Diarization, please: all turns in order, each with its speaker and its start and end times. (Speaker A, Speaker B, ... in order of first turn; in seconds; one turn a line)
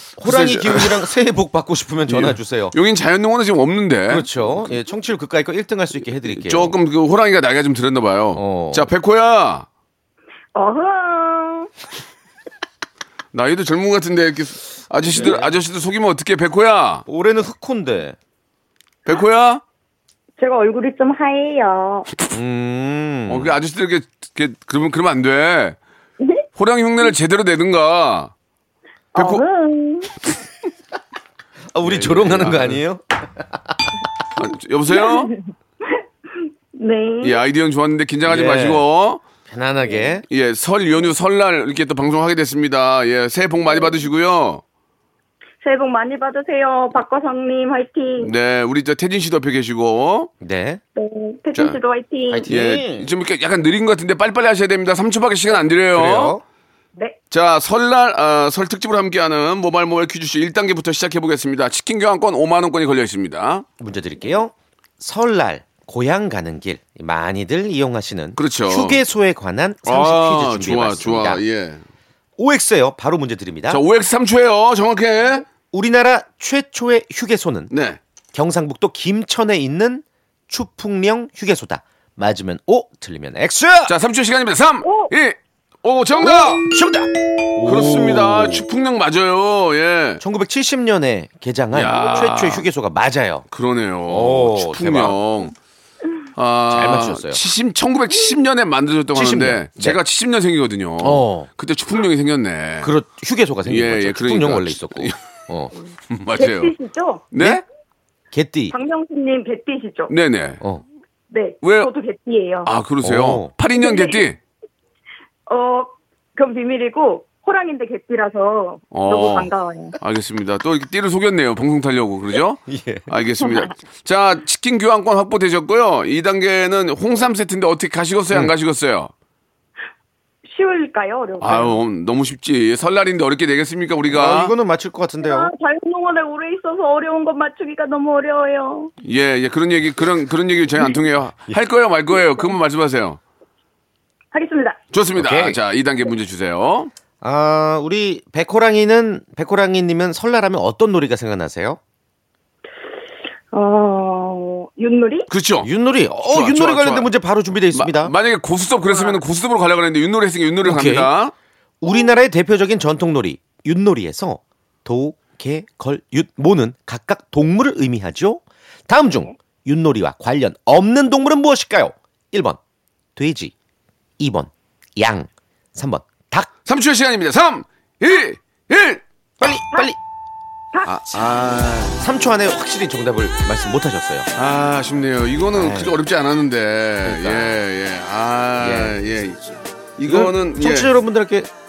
Speaker A: 0.2-2.7
Speaker B: 0.2-1.1
Speaker B: 2.1-4.3
Speaker A: 4.1-6.8
Speaker B: 6.2-9.7
Speaker A: 8.3-8.9
Speaker C: 10.6-11.7
Speaker B: 13.3-17.0
Speaker A: 15.1-15.5
Speaker A: 17.1-18.2
Speaker B: 19.1-19.6
Speaker C: 20.4-22.1
Speaker A: 22.3-23.6
Speaker B: 23.3-25.8
Speaker C: 26.2-26.5
Speaker B: 26.6-28.3
Speaker B: 29.1-29.4
Speaker C: 29.1-30.1
Speaker A: 31.7-33.5
Speaker B: 31.8-32.8
Speaker B: 34.4-35.3
Speaker C: 34.9-35.4
Speaker C: 36.8-37.4
Speaker B: 37.2-39.2
Speaker A: 38.2-38.9
Speaker A: 39.5-40.2
Speaker B: 40.3-44.6
Speaker C: 45.6-48.3
Speaker B: 48.2-50.3
Speaker A: 50.4-50.8
Speaker C: 51.0-52.5
Speaker A: 52.3-53.1
Speaker B: 52.5-56.4
Speaker A: 55.9-56.4
Speaker B: 57.3-63.7
Speaker A: 63.8-71.4
Speaker B: 68.4-69.0
Speaker B: 69.9-71.8
Speaker A: 72.4-73.8
Speaker B: 73.7-75.5
Speaker A: 75.7-77.7
Speaker B: 77.7-78.0
Speaker A: 78.3-84.0
Speaker B: 83.9-86.7
Speaker C: 84.8-85.1
Speaker A: 86.2-88.6
Speaker B: 87.6-90.2
Speaker A: 90.2-93.5
Speaker B: 91.7-92.7
Speaker B: 93.5-95.5
Speaker A: 94.1-95.2
Speaker B: 96.4-102.9
Speaker A: 96.7-97.4
Speaker A: 99.1-100.0
Speaker A: 101.0-101.5
Speaker A: 102.8-105.7
Speaker B: 103.7-105.2
Speaker B: 106.1-106.7
Speaker C: 106.3-107.3
Speaker B: 107.3-107.6
Speaker A: 107.4-107.6
Speaker A: 108.3-108.8
Speaker C: 108.7-110.1
Speaker B: 110.1-110.6
Speaker C: 111.3-112.7
Speaker B: 111.6-111.9
Speaker B: 112.6-114.4
Speaker A: 113.0-113.5
Speaker C: 113.8-114.2
Speaker C: 115.5-120.0
Speaker B: 118.9-129.1
Speaker A: 122.7-123.1
Speaker C: 130.5-131.8
Speaker B: 131.4-134.5
Speaker A: 134.1-135.5
Speaker C: 135.2-138.9
Speaker B: 139.0-143.2
Speaker C: 144.3-144.8
Speaker B: 144.9-146.9
Speaker A: 145.2-145.6
Speaker A: 147.2-151.8
Speaker C: 153.5-155.3
Speaker B: 155.3-155.7
Speaker A: 155.6-158.1
Speaker B: 156.2-157.1
Speaker B: 157.7-161.3
Speaker A: 160.6-161.1
Speaker A: 161.8-172.6
Speaker A: 173.2-173.5
Speaker A: 174.2-176.5
Speaker B: 176.7-179.0
Speaker A: 179.4-180.0
Speaker B: 180.8-182.0
Speaker A: 182.0-184.3
Speaker B: 184.3-190.9
Speaker A: 185.6-185.9
Speaker A: 187.0-187.6
Speaker A: 188.6-189.0
Speaker A: 190.1-191.5